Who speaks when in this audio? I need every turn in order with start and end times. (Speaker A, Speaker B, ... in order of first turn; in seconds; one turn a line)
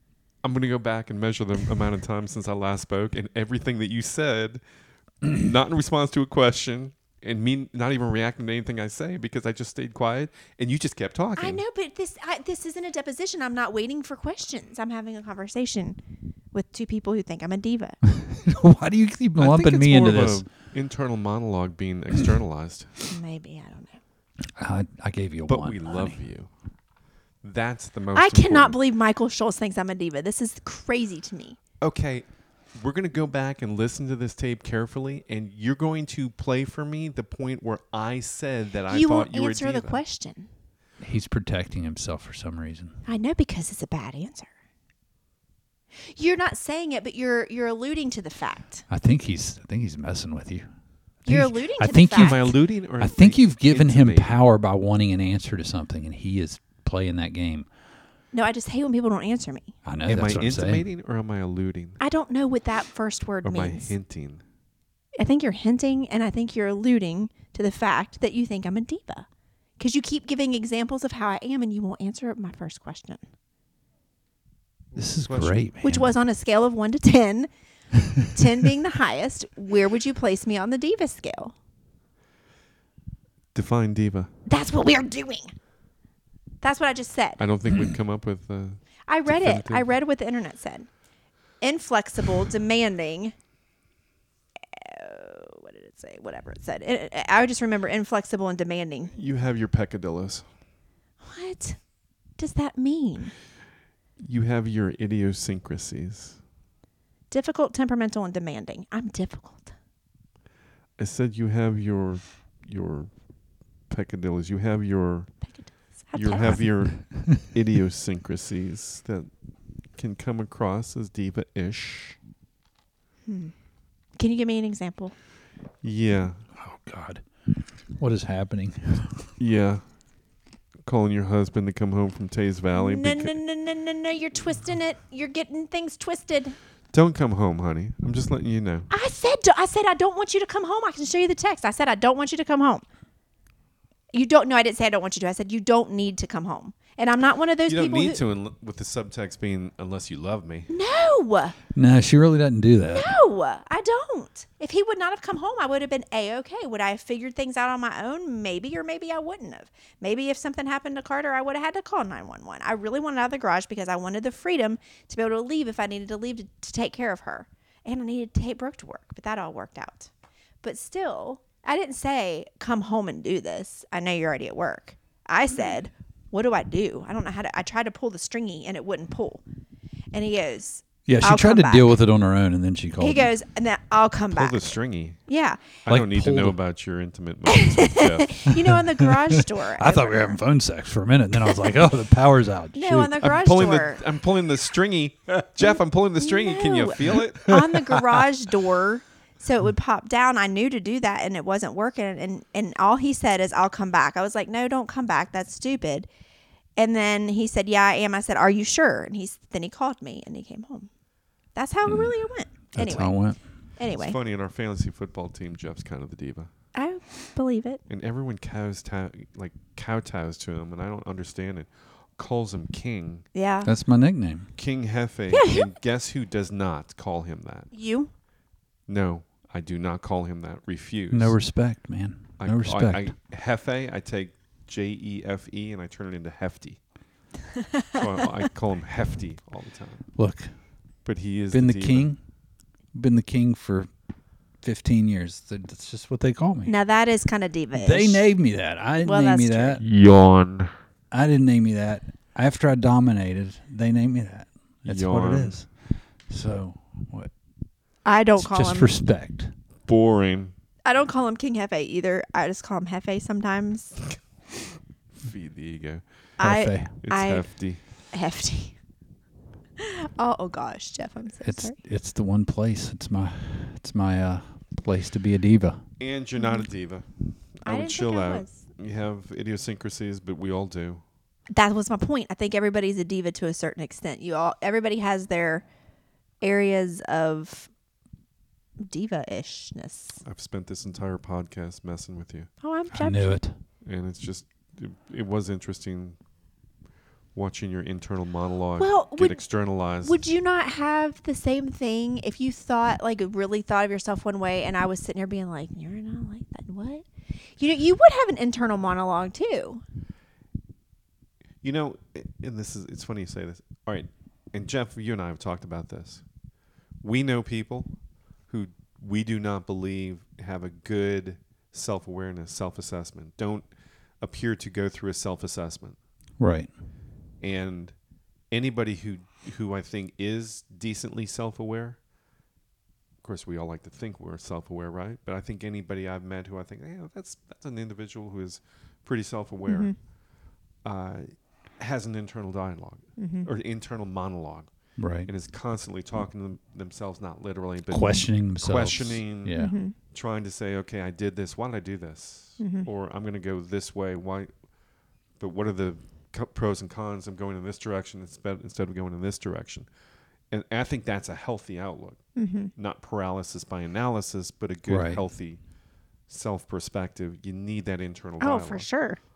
Speaker A: 0.4-4.6
Speaker A: 5.2-11.6
Speaker B: 11.4-16.0
Speaker B: 16.5-18.0
Speaker C: 18.1-20.4
Speaker A: 19.4-22.9
Speaker B: 23.1-24.0
Speaker C: 24.6-26.2
Speaker A: 25.5-26.5
Speaker A: 27.4-28.8
Speaker B: 28.1-31.6
Speaker A: 31.8-40.0
Speaker B: 38.9-40.5
Speaker C: 41.0-43.0
Speaker B: 43.0-44.5
Speaker B: 46.0-48.8
Speaker C: 48.9-50.7
Speaker B: 51.2-52.4
Speaker C: 51.3-57.7
Speaker A: 52.1-54.4
Speaker B: 58.3-59.7
Speaker C: 59.8-60.9
Speaker A: 60.1-62.0
Speaker B: 62.0-63.9
Speaker A: 63.4-64.4
Speaker B: 65.2-69.3
Speaker B: 69.8-73.2
Speaker C: 74.9-76.1
Speaker A: 75.3-75.6
Speaker B: 75.8-77.5
Speaker B: 78.2-81.5
Speaker A: 83.5-84.3
Speaker B: 84.5-85.5
Speaker B: 86.6-87.4
Speaker A: 87.4-89.9
Speaker B: 89.1-90.9
Speaker B: 91.6-93.3
Speaker B: 94.7-99.1
Speaker A: 99.1-100.4
Speaker B: 101.2-101.8
Speaker B: 102.4-103.3
Speaker A: 104.2-106.4
Speaker B: 107.3-109.7
Speaker A: 111.0-113.1
Speaker A: 113.9-115.3
Speaker B: 115.4-116.6
Speaker A: 116.1-119.3
Speaker C: 116.5-117.4
Speaker A: 119.9-122.2
Speaker B: 123.3-123.5
Speaker B: 124.2-125.1
Speaker A: 125.8-126.4
Speaker C: 126.5-129.3
Speaker A: 129.4-129.8
Speaker A: 130.8-133.3
Speaker B: 132.7-136.6
Speaker A: 136.9-138.9
Speaker B: 138.9-142.8
Speaker B: 144.1-148.2
Speaker A: 147.7-150.7
Speaker B: 150.7-151.6
Speaker C: 151.7-153.1
Speaker B: 152.9-170.1
Speaker B: 170.6-179.4
Speaker B: 180.1-181.9
Speaker C: 181.1-183.3
Speaker B: 183.0-184.8
Speaker A: 184.3-185.2
Speaker B: 185.3-185.7
Speaker A: 185.8-188.5
Speaker C: 185.9-186.6
Speaker B: 187.5-190.4
Speaker C: 188.5-193.1
Speaker B: 192.7-194.0
Speaker A: 193.2-197.5
Speaker B: 196.2-206.1
Speaker C: 197.5-198.2
Speaker B: 206.8-210.9
Speaker B: 211.5-213.1
Speaker C: 211.8-212.1
Speaker C: 212.7-213.4
Speaker B: 213.8-214.2
Speaker A: 213.9-216.5
Speaker B: 216.7-217.8
Speaker A: 217.9-223.2
Speaker B: 223.3-223.7
Speaker C: 223.6-224.5
Speaker A: 224.6-227.7
Speaker B: 225.3-225.7
Speaker B: 227.7-228.1
Speaker A: 228.9-231.3
Speaker C: 231.1-233.1
Speaker A: 232.4-236.8
Speaker B: 237.6-238.1
Speaker A: 237.9-240.1
Speaker C: 240.2-240.5
Speaker A: 241.0-242.1
Speaker C: 241.5-242.2
Speaker C: 242.9-243.9
Speaker C: 244.6-246.7
Speaker B: 246.7-248.2
Speaker C: 247.7-249.8
Speaker B: 249.0-249.8
Speaker A: 249.8-250.7
Speaker C: 251.1-257.3
Speaker A: 254.8-255.6
Speaker B: 258.0-258.9
Speaker C: 258.4-259.5
Speaker A: 259.8-260.5
Speaker B: 260.8-264.1
Speaker A: 265.1-266.0
Speaker B: 266.4-267.5
Speaker C: 266.4-266.9
Speaker A: 267.0-267.8
Speaker B: 268.1-268.8
Speaker B: 269.8-271.7
Speaker C: 271.4-275.8
Speaker A: 276.0-281.0
Speaker B: 276.4-276.6
Speaker B: 277.6-278.6
Speaker B: 281.5-285.6
Speaker B: 286.4-287.7
Speaker B: 288.8-290.2
Speaker A: 290.2-292.5
Speaker B: 292.6-293.4
Speaker C: 292.9-293.6
Speaker A: 293.8-296.2
Speaker A: 297.3-300.2
Speaker B: 298.8-307.0
Speaker B: 307.6-309.8
Speaker A: 311.6-316.2
Speaker A: 317.0-317.9
Speaker A: 318.5-323.7
Speaker A: 324.2-326.0
Speaker C: 326.4-326.7
Speaker A: 327.4-327.9
Speaker A: 328.5-332.0
Speaker A: 333.2-339.9
Speaker B: 339.6-339.9
Speaker A: 340.8-344.7
Speaker B: 343.2-343.5
Speaker C: 345.0-345.3
Speaker A: 345.2-349.5
Speaker C: 347.9-349.8
Speaker B: 349.6-349.9
Speaker A: 350.1-354.5
Speaker B: 352.6-352.9
Speaker A: 355.4-359.9
Speaker A: 360.5-365.6
Speaker B: 362.4-362.7
Speaker C: 364.9-365.2
Speaker A: 366.3-368.9
Speaker B: 368.4-369.2